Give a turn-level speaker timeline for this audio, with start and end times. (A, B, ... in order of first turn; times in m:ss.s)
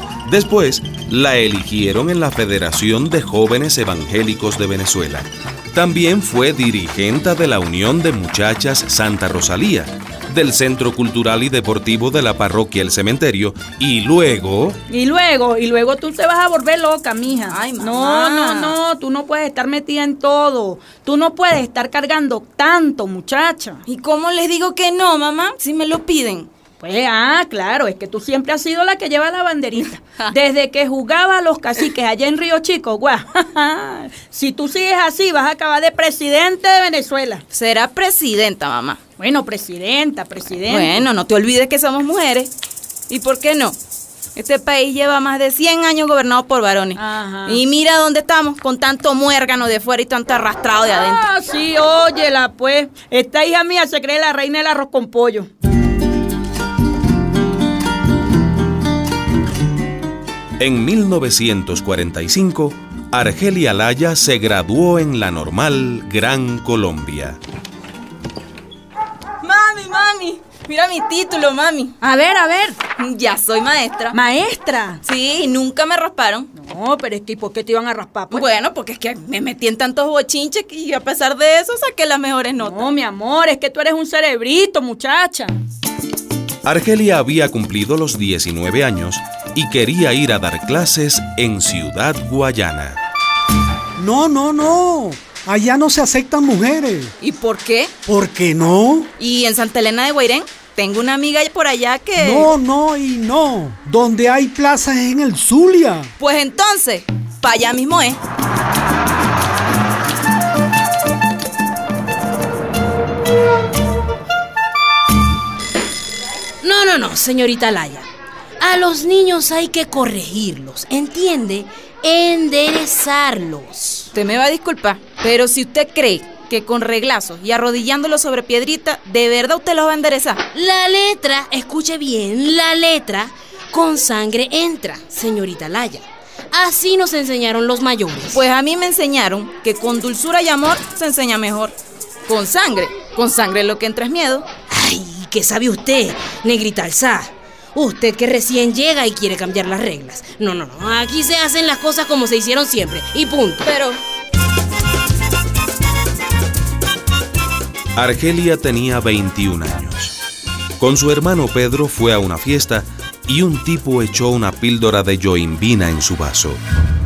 0:00.2-0:14.8 A
0:14.9-0:23.8 B
0:17.5-0:18.7 C
0:23.9-0:26.5 C
0:26.8-0:37.4 B
0:37.5-0:39.0 C
0:39.2-0:41.0 B
0:40.7-0:42.5 C
0:43.1-0:43.8 C
0:44.4-0:51.2 C
0:47.0-0:47.6 B
0:50.9-0:55.5 B
1:00.6-1:07.4 A
1:09.4-1:11.9 C
1:12.0-1:12.8 B
1:13.0-1:14.2 C
1:14.1-1:15.0 B
1:15.0-1:16.5 C
1:16.6-1:18.4 B
1:18.3-1:22.8 C
1:22.6-1:25.6 B
1:26.6-1:33.0 A
1:34.0-1:37.1 D
1:37.2-1:37.9 C
1:38.0-1:39.1 D
1:39.2-1:42.5 C
1:42.2-1:46.1 D
1:46.2-1:48.2 C
1:56.6-1:58.1 E
1:58.6-2:04.1 E
2:04.1-2:10.4 C
2:10.5-2:18.4 E
2:18.3-2:21.7 C
2:22.3-2:24.5 C
2:24.7-2:33.7 E
2:33.6-2:34.0 C
2:38.0-2:40.1 A
2:40.8-2:46.6 A